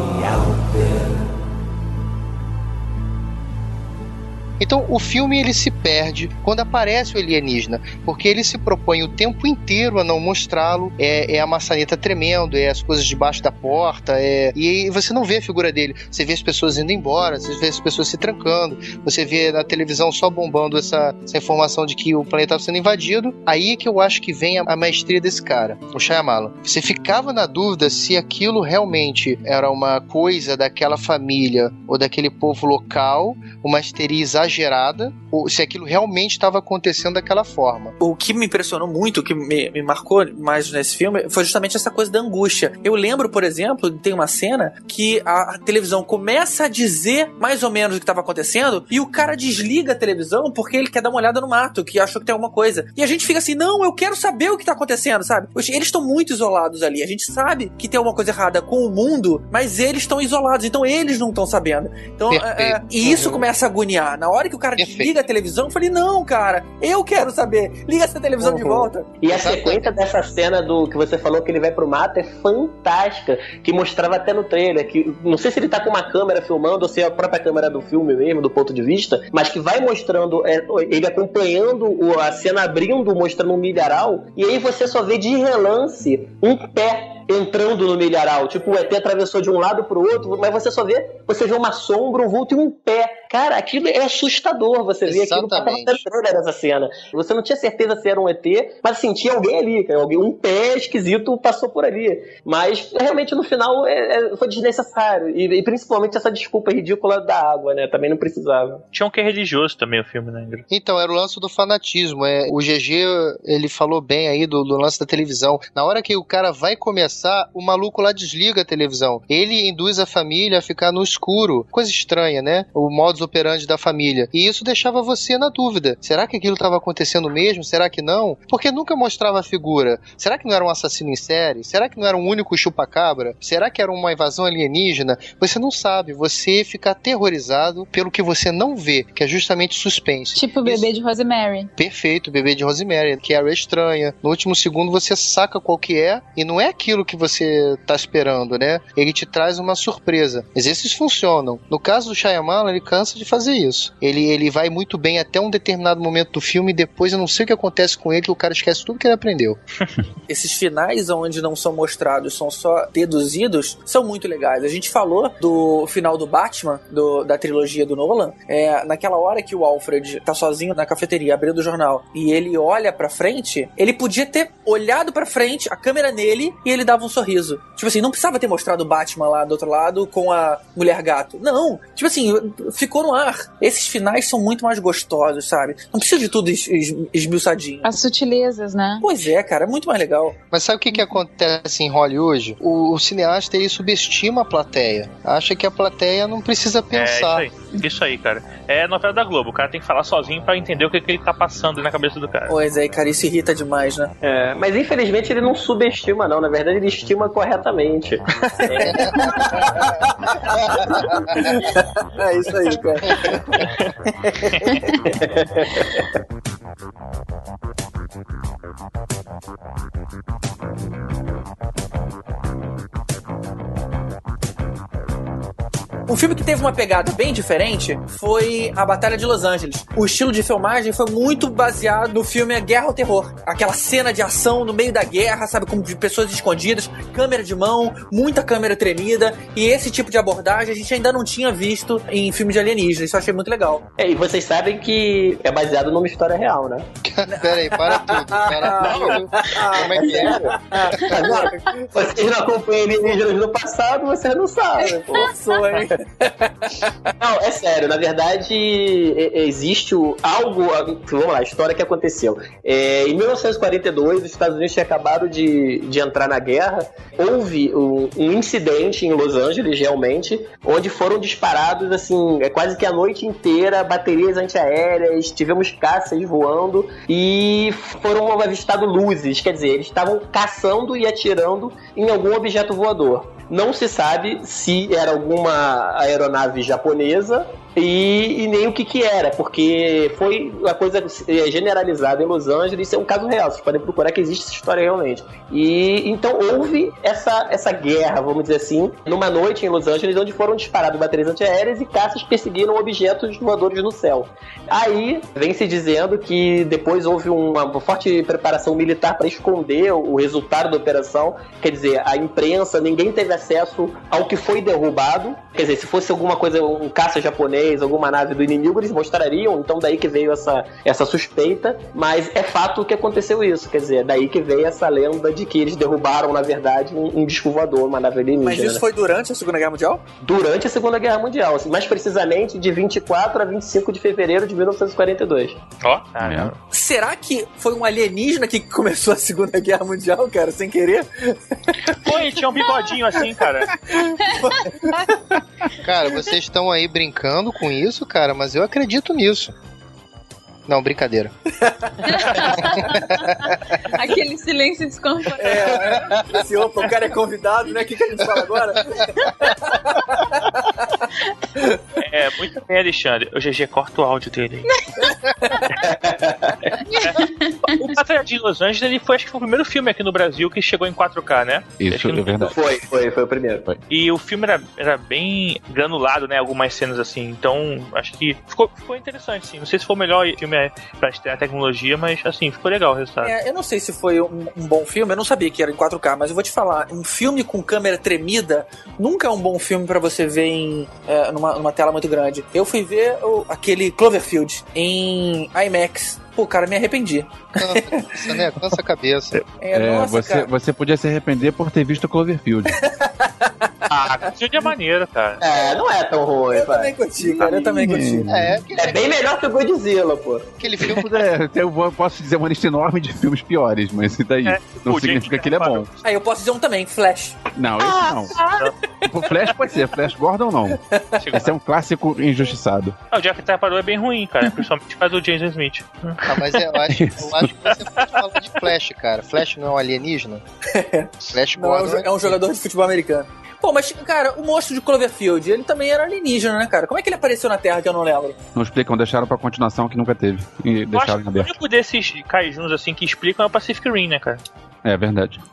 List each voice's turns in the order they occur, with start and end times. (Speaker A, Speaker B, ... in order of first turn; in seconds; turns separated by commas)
Speaker A: 4.6-37.9, Speaker B: 38.0-69.1, Speaker A: 62.3-62.8, Speaker C: 63.0-63.4, Speaker A: 64.8-65.1, Speaker C: 68.4-108.8, Speaker A: 69.3-70.0, Speaker A: 95.0-96.0, Speaker D: 108.9-110.6, Speaker A: 110.7-140.9, Speaker E: 140.3-141.7, Speaker A: 141.8-159.6, Speaker B: 160.3-187.9, Speaker E: 187.8-189.1, Speaker B: 189.0-190.4, Speaker A: 190.5-197.5, Speaker D: 196.9-202.5, Speaker B: 202.5-204.1, Speaker C: 204.2-211.6, Speaker B: 208.7-214.9, Speaker D: 214.5-214.9, Speaker C: 215.0-216.1, Speaker B: 226.1-243.8, Speaker C: 244.0-246.8, Speaker A: 247.0-250.5, Speaker B: 247.3-251.9, Speaker C: 248.8-249.2, Speaker C: 249.9-255.9, Speaker B: 254.8-256.9, Speaker C: 257.2-328.8, Speaker B: 328.4-330.0, Speaker C: 330.2-335.6, Speaker D: 335.8-336.6, Speaker F: 336.2-336.5, Speaker B: 336.7-342.2, Speaker D: 342.0-343.8, Speaker B: 343.9-345.4, Speaker E: 344.2-345.0, Speaker A: 345.8-349.5, Speaker A: 350.7-351.3, Speaker B: 351.6-352.0, Speaker E: 352.1-356.1, Speaker A: 352.6-353.6, Speaker B: 355.4-361.0, Speaker A: 355.9-356.4, Speaker D: 362.0-364.6, Speaker C: 365.8-366.8, Speaker E: 366.9-367.9, Speaker D: 367.0-372.5, Speaker F: 371.8-372.6, Speaker C: 372.5-373.6, Speaker D: 373.9-383.3, Speaker B: 383.2-398.3, Speaker A: 397.6-399.4, Speaker B: 399.6-400.5, Speaker F: 399.7-402.8, Speaker B: 402.8-403.7, Speaker C: 403.9-404.2, Speaker D: 404.1-405.4, Speaker C: 405.4-406.9, Speaker B: 406.5-408.4, Speaker A: 407.2-407.7, Speaker F: 407.7-408.6, Speaker A: 408.2-409.1, Speaker C: 408.7-410.5, Speaker A: 410.6-411.2, Speaker F: 410.9-415.9, Speaker D: 414.4-415.9, Speaker B: 416.0-417.5, Speaker F: 417.5-418.4, Speaker F: 419.0-420.8, Speaker B: 420.9-421.2, Speaker D: 421.2-421.6, Speaker F: 421.3-422.9, Speaker D: 423.1-426.4, Speaker A: 426.2-430.4, Speaker F: 426.9-427.5, Speaker B: 430.7-438.4, Speaker A: 431.3-432.3, Speaker F: 438.5-441.6, Speaker D: 440.9-444.4, Speaker F: 444.8-445.4